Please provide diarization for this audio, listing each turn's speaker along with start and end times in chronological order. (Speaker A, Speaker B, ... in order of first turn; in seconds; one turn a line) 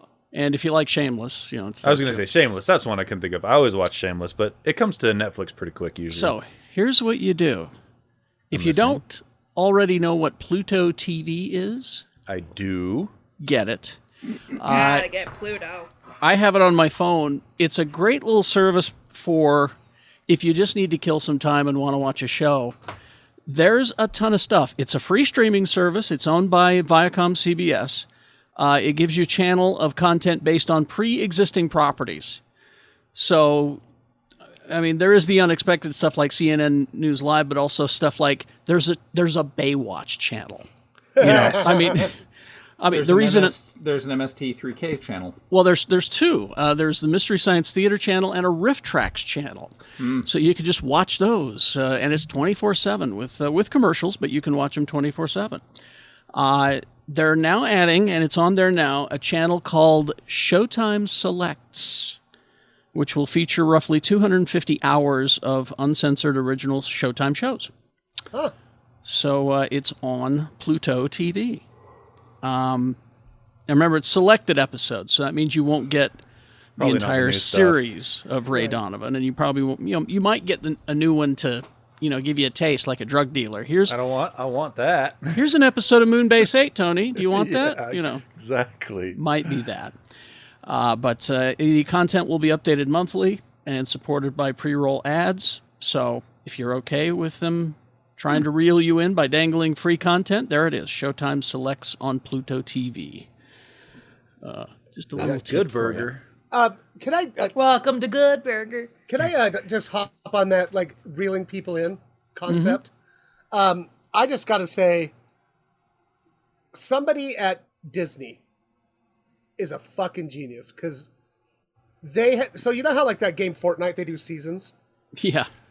Speaker A: 0.3-2.3
Speaker B: 1.8-6.3
Speaker A: 6.1-7.7
Speaker A: 8.5-12.1
Speaker B: 8.5-9.0
Speaker B: 12.3-13.1
Speaker A: 13.4-14.0
Speaker A: 14.6-15.1
Speaker C: 14.6-15.9
Speaker A: 16.2-19.7
Speaker A: 20.3-22.7
Speaker A: 23.5-28.1
Speaker A: 28.6-32.4
Speaker A: 33.1-33.8
Speaker A: 34.7-40.7
Speaker D: 41.2-41.8
Speaker A: 41.2-42.1
Speaker A: 42.8-43.5
Speaker E: 42.9-45.4
Speaker A: 45.5-55.6
Speaker E: 50.0-50.3
Speaker A: 56.3-62.2
Speaker A: 62.9-67.7
Speaker A: 69.0-71.6
Speaker A: 72.4-73.0
Speaker A: 73.7-76.2
Speaker A: 76.8-84.0
Speaker B: 76.8-77.9
Speaker D: 78.5-78.8
Speaker B: 83.9-85.4
Speaker A: 85.3-88.2
Speaker B: 87.2-89.2
Speaker A: 89.1-89.9
Speaker A: 90.6-103.3
Speaker A: 104.4-106.1
Speaker B: 105.2-106.2
Speaker D: 106.5-107.5
Speaker C: 107.5-108.9
Speaker D: 109.1-112.9
Speaker A: 112.5-112.8
Speaker D: 113.5-115.1
Speaker D: 116.7-118.4
Speaker D: 119.6-121.1
Speaker D: 122.0-124.7
Speaker A: 125.2-125.5